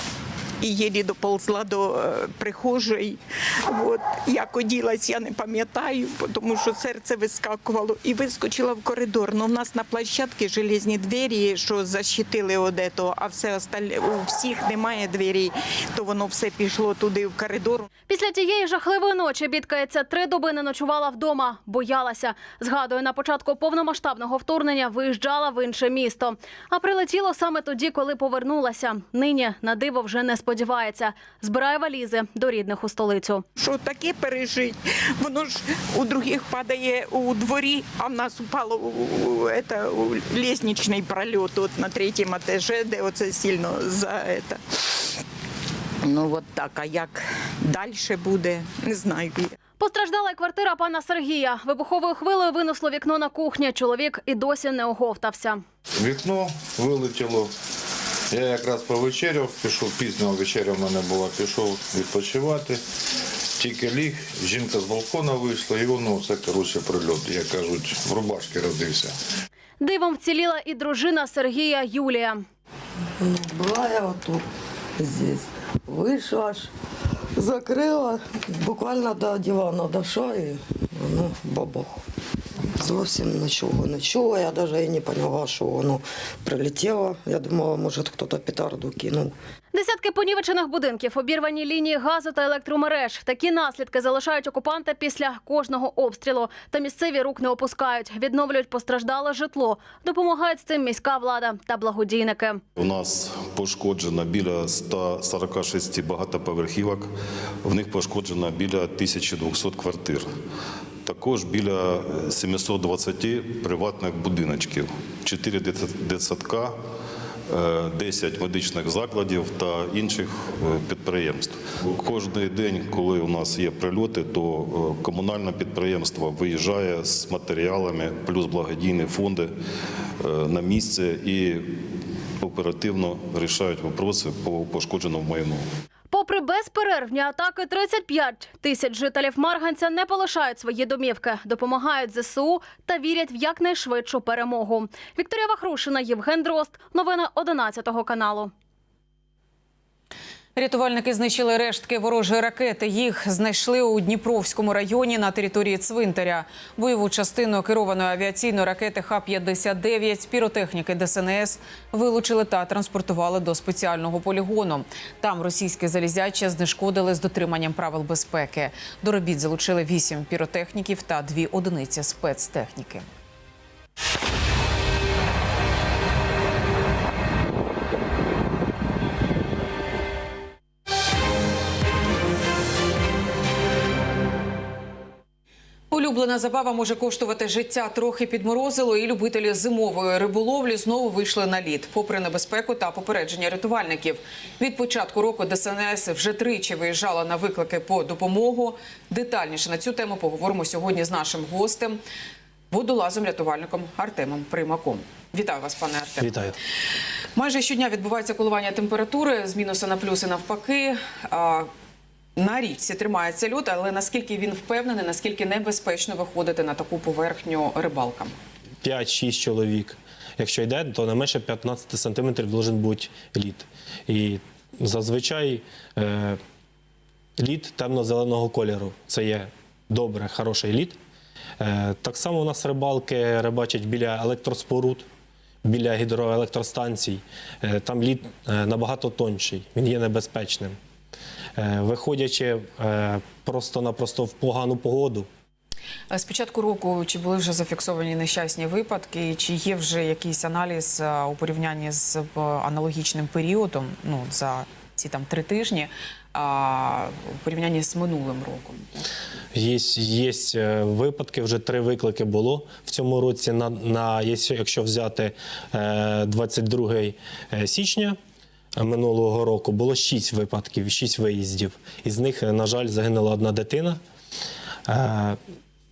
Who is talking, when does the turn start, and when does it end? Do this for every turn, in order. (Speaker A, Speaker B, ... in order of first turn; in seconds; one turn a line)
Speaker A: 0.6-17.9
Speaker B: 18.1-33.4
Speaker A: 33.6-44.6
Speaker A: 46.0-49.5
Speaker B: 49.8-55.6
Speaker C: 56.0-57.5
Speaker C: 58.3-62.8
Speaker C: 63.6-69.1
Speaker B: 69.8-72.4
Speaker D: 73.2-74.4
Speaker D: 75.0-76.7
Speaker D: 77.4-82.0
Speaker D: 82.8-89.3
Speaker B: 89.7-102.6
Speaker E: 102.8-107.1
Speaker E: 107.6-110.3
Speaker E: 111.0-116.8
Speaker E: 117.5-129.5
Speaker E: 130.2-131.8
Speaker E: 132.4-135.6
Speaker B: 136.1-148.5
Speaker F: 150.6-173.1
Speaker F: 185.9-202.0
Speaker F: 202.7-206.3
Speaker G: 206.2-206.6
Speaker F: 207.4-211.7
Speaker F: 212.4-218.3
Speaker G: 218.8-226.4
Speaker G: 227.4-231.0
Speaker G: 231.6-235.1
Speaker G: 235.6-240.8
Speaker G: 241.6-245.3
Speaker F: 246.1-259.1
Speaker G: 259.5-268.2
Speaker G: 268.8-274.0
Speaker G: 274.9-275.4